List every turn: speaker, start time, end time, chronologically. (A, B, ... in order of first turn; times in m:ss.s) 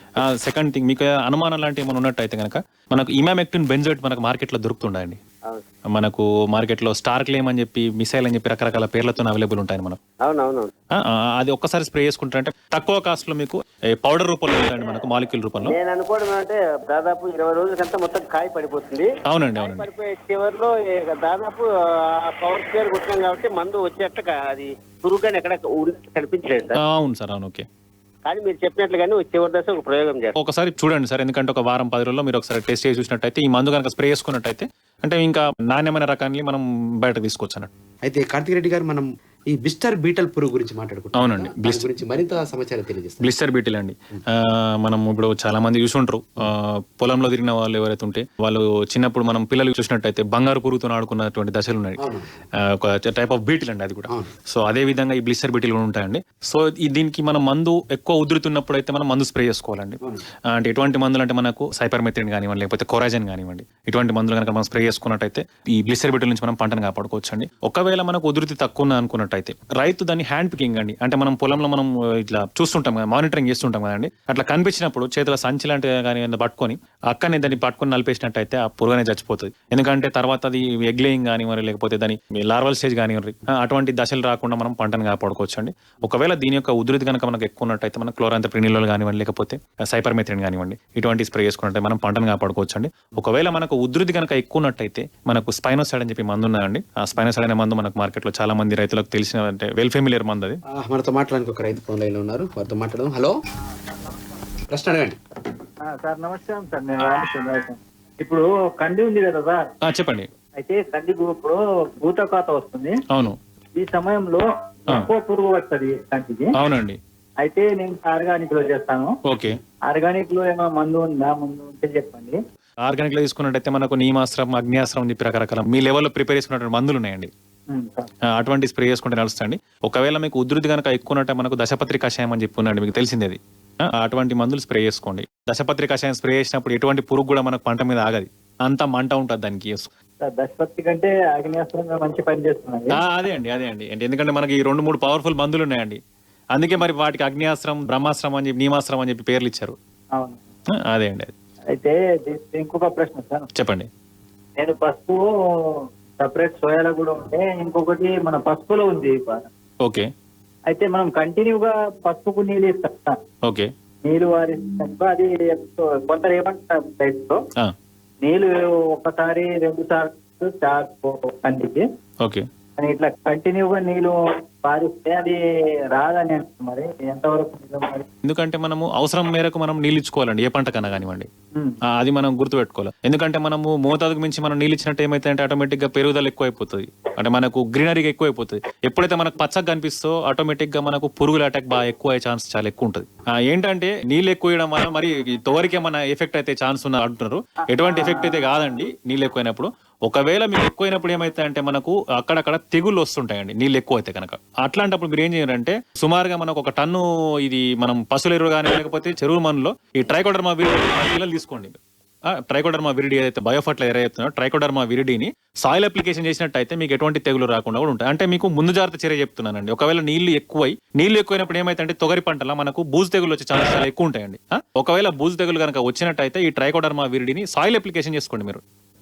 0:00.2-0:05.2 A
0:05.9-0:10.0 A
0:10.2-0:10.7 B
0:11.0-0:15.8 A
0:15.6-0:26.8 B
0:19.3-0:19.9 A
0:26.8-0:27.6 A
0:28.2-0:30.3 B
0:30.4-0:37.7 A
0:38.0-0:43.3 C
0:41.2-0:42.0 A
0:43.2-0:52.0 A
0:52.0-0:52.3 C
0:52.6-1:40.6 A
1:40.7-1:43.3 C
1:44.7-1:45.2 C
1:45.9-1:49.7 D
1:49.8-1:50.3 A
1:50.6-1:53.0 D
1:53.1-1:53.4 A
1:53.8-1:56.5 D
1:56.6-1:57.0 A
1:57.4-1:59.1 D
1:59.3-1:59.6 A
1:59.9-2:02.4 D
2:02.8-2:07.3 A
2:07.7-2:08.1 D
2:08.3-2:19.9 A
2:20.2-2:23.0 D
2:22.9-2:26.0 A
2:26.5-2:29.8 A
2:30.2-2:30.4 D
2:30.7-2:31.3 A
2:31.7-2:33.5 D
2:33.6-2:33.9 A
2:34.6-2:35.2 D
2:36.2-2:39.5 D
2:39.8-2:40.1 A
2:40.7-2:43.2 D
2:43.4-2:43.7 A
2:44.0-2:47.4 D
2:48.2-2:51.8 D
2:52.8-2:55.4 D
2:55.9-2:58.0 D
2:58.2-3:01.3 A
3:02.0-3:31.8 A
3:17.7-3:18.5 D
3:32.3-3:48.6 A